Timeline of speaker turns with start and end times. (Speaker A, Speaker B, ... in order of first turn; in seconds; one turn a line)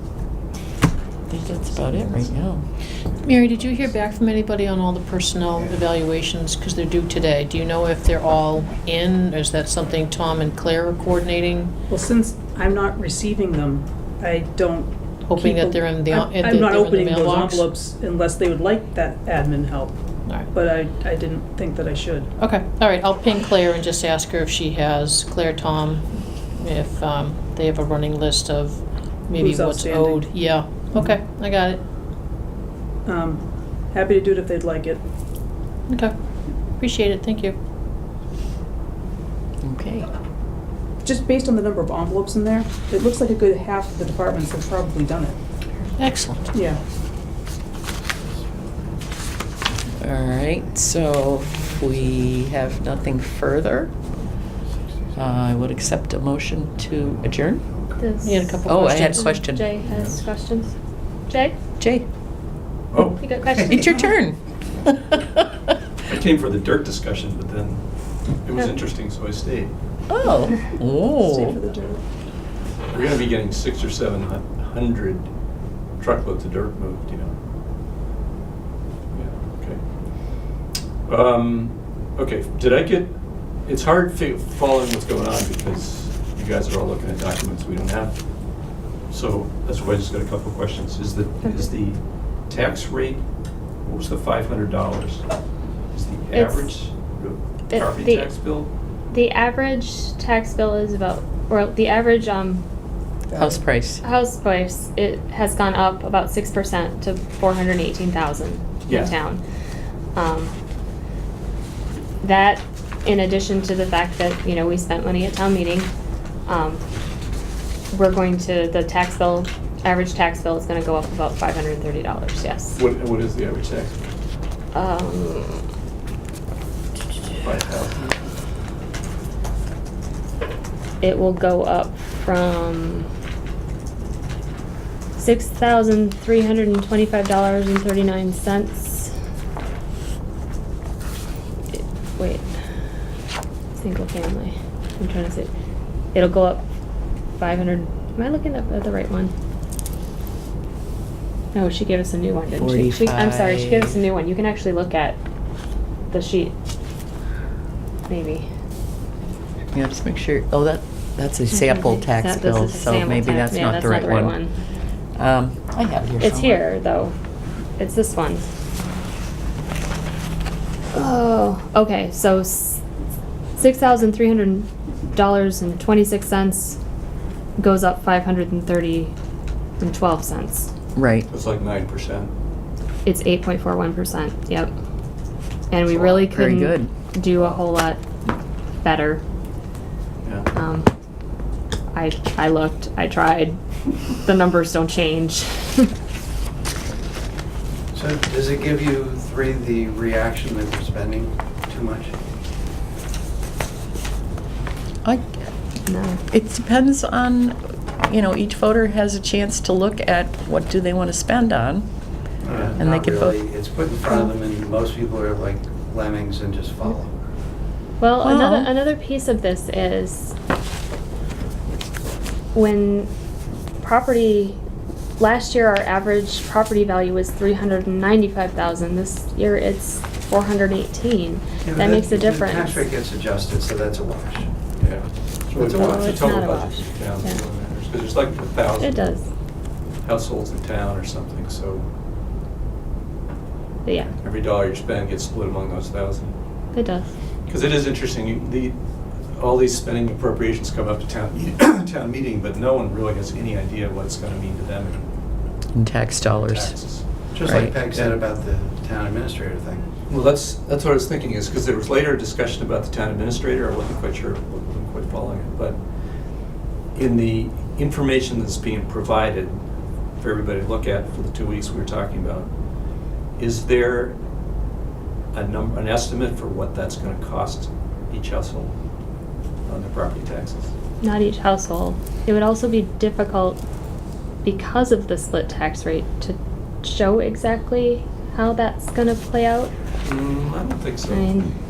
Speaker A: 1.3-2.6
Speaker B: 1.5-2.3
Speaker B: 3.0-3.7
Speaker C: 3.2-11.7
Speaker D: 11.9-20.0
Speaker C: 15.3-17.7
Speaker D: 20.5-22.3
Speaker C: 22.4-31.8
Speaker D: 29.4-31.1
Speaker D: 33.0-35.0
Speaker C: 35.9-36.1
Speaker C: 36.7-37.5
Speaker A: 39.6-40.1
Speaker D: 41.0-45.4
Speaker C: 46.0-46.6
Speaker D: 46.5-46.8
Speaker A: 50.0-53.9
Speaker E: 51.9-52.4
Speaker E: 55.1-55.5
Speaker A: 55.1-57.6
Speaker E: 57.5-58.0
Speaker F: 58.0-60.7
Speaker C: 58.2-59.3
Speaker A: 58.6-59.7
Speaker B: 59.8-60.2
Speaker F: 61.3-61.5
Speaker A: 61.8-62.1
Speaker B: 62.9-63.6
Speaker F: 63.2-64.0
Speaker A: 63.7-65.7
Speaker B: 66.0-67.8
Speaker B: 68.4-69.7
Speaker A: 70.1-71.5
Speaker D: 71.2-72.0
Speaker B: 72.9-75.3
Speaker B: 76.0-77.3
Speaker B: 79.1-79.8
Speaker B: 81.1-83.1
Speaker B: 83.7-88.2
Speaker B: 89.1-93.2
Speaker F: 91.4-91.7
Speaker B: 93.8-95.2
Speaker B: 95.9-98.7
Speaker F: 96.3-96.7
Speaker F: 97.7-98.3
Speaker F: 99.1-102.6
Speaker A: 103.4-104.0
Speaker F: 104.0-109.4
Speaker B: 108.8-109.1
Speaker F: 110.1-110.5
Speaker F: 112.2-115.9
Speaker F: 116.5-116.8
Speaker F: 117.9-122.8
Speaker B: 122.7-124.0
Speaker F: 124.7-125.6
Speaker B: 127.4-128.2
Speaker F: 131.0-133.1
Speaker F: 135.2-139.1
Speaker F: 141.7-142.5
Speaker F: 143.7-145.5
Speaker F: 146.1-146.6
Speaker F: 147.4-149.3
Speaker F: 151.5-155.2
Speaker A: 152.6-154.0
Speaker F: 156.1-156.5
Speaker F: 158.1-158.4
Speaker A: 159.7-164.3
Speaker F: 161.5-164.5
Speaker A: 165.2-166.6
Speaker F: 166.2-167.1
Speaker F: 167.8-168.5
Speaker F: 170.9-172.8
Speaker F: 173.6-176.8
Speaker F: 177.6-179.1
Speaker F: 179.8-180.7
Speaker A: 180.9-181.3
Speaker B: 181.3-182.3
Speaker F: 183.0-184.7
Speaker F: 185.7-188.0
Speaker A: 185.9-186.9
Speaker F: 188.8-189.2
Speaker B: 190.2-190.5
Speaker F: 190.5-190.9
Speaker F: 191.9-193.6
Speaker F: 194.2-195.9
Speaker E: 197.9-202.1
Speaker A: 205.0-205.5
Speaker F: 205.8-206.2
Speaker A: 206.3-211.9
Speaker E: 212.4-217.1
Speaker B: 212.4-212.8
Speaker A: 212.8-213.4
Speaker F: 218.0-220.3
Speaker A: 218.2-218.7
Speaker F: 222.5-223.1
Speaker F: 223.8-224.6
Speaker F: 225.2-232.8
Speaker E: 231.6-234.5
Speaker B: 234.8-239.0
Speaker E: 235.5-236.4
Speaker F: 235.7-237.4
Speaker F: 238.8-239.2
Speaker B: 240.0-241.8
Speaker F: 243.8-244.1
Speaker B: 244.2-246.3
Speaker F: 246.7-247.1
Speaker B: 247.5-248.7
Speaker B: 249.3-255.0
Speaker A: 255.7-256.7
Speaker B: 256.4-257.1
Speaker E: 257.3-259.9
Speaker A: 257.4-257.7
Speaker B: 257.9-258.2
Speaker B: 260.1-265.8
Speaker B: 266.9-269.6
Speaker B: 270.2-272.5
Speaker B: 273.4-274.2
Speaker B: 275.3-278.7
Speaker B: 279.6-280.7
Speaker F: 281.0-283.6
Speaker F: 284.4-289.7
Speaker B: 290.0-291.4
Speaker F: 291.1-291.5